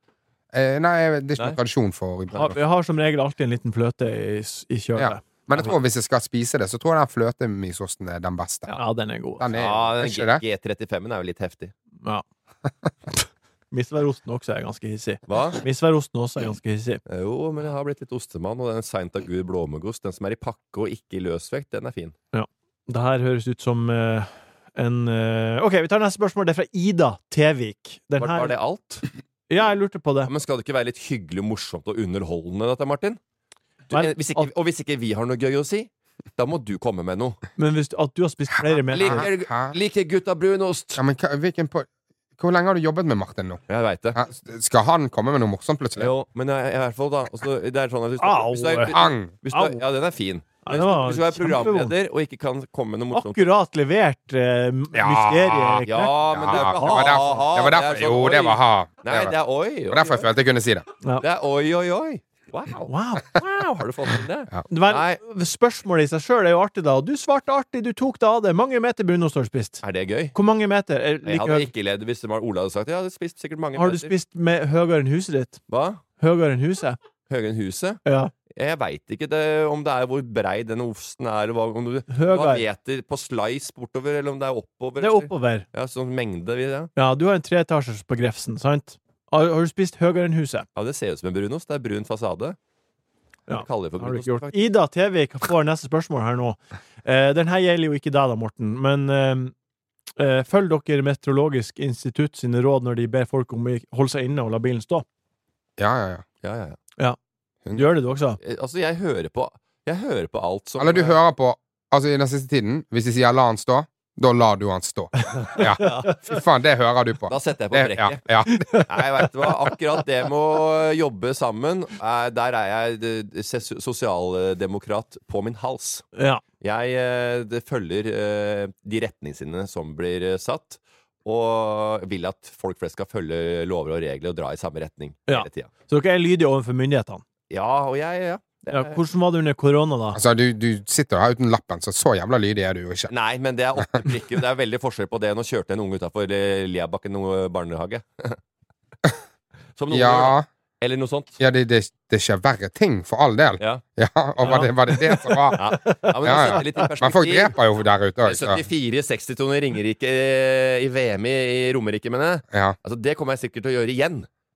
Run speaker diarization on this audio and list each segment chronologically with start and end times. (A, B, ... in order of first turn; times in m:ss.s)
0:00.5-0:02.6 A
0:02.4-0:05.7 B
0:05.0-0:08.8 A
0:08.8-0:09.5 B
0:09.4-0:10.4 A
0:09.5-0:11.7 C
0:13.7-0:17.0 B
0:15.3-0:15.6 C
0:17.1-0:22.2 C
0:22.3-0:28.6 B
0:28.2-0:29.0 C
0:29.5-0:30.3 B
0:30.3-0:33.2 C
0:33.9-0:37.4 C
0:33.9-0:34.5 B
0:37.6-0:39.3 B
0:38.9-0:41.0 C
0:38.9-0:39.8 A
0:41.0-0:43.6 A
0:43.7-0:44.2 C
0:44.2-0:46.1 A
0:46.0-0:53.5 C
0:48.2-0:49.0 B
0:48.9-0:49.3 A
0:49.5-0:49.8 B
0:50.6-0:51.9 B
0:53.1-0:57.4 B
0:54.9-0:59.4 A
0:55.8-1:00.3 C
0:59.9-1:00.9 A
1:01.2-1:05.2 C
1:02.9-1:03.3 B
1:04.7-1:11.7 B
1:09.8-1:10.4 C
1:11.2-1:14.1 C
1:13.8-1:15.6 B
1:15.7-1:16.0 C
1:16.2-1:17.0 B
1:17.3-1:18.0 C
1:18.1-1:18.3 B
1:18.5-1:26.9 C
1:22.1-1:22.6 B
1:25.0-1:25.7 B
1:27.0-1:30.7 B
1:30.8-1:32.6 C
1:33.5-1:39.5 B
1:33.6-1:34.6 C
1:40.2-1:45.1 B
1:45.8-1:46.2 A
1:46.4-1:46.8 C
1:47.7-1:48.4 B
1:48.4-1:51.2 C
1:50.8-1:58.7 A
1:55.3-1:56.1 B
1:55.8-1:56.2 C
1:57.3-2:06.1 C
1:58.5-1:58.9 B
2:06.2-2:06.4 B
2:06.6-2:15.7 C
2:15.3-2:17.2 B
2:17.5-2:19.0 C
2:18.7-2:20.2 B
2:20.1-2:23.1 A
2:23.1-2:28.4 C
2:23.8-2:24.0 A
2:29.8-2:31.4 C
2:29.9-2:30.5 A
2:31.4-2:35.6 A
2:34.4-2:34.7 C
2:34.5-2:36.8 B
2:35.6-2:37.6 C
2:36.2-2:38.7 A
2:38.2-2:44.3 C
2:42.5-2:42.8 A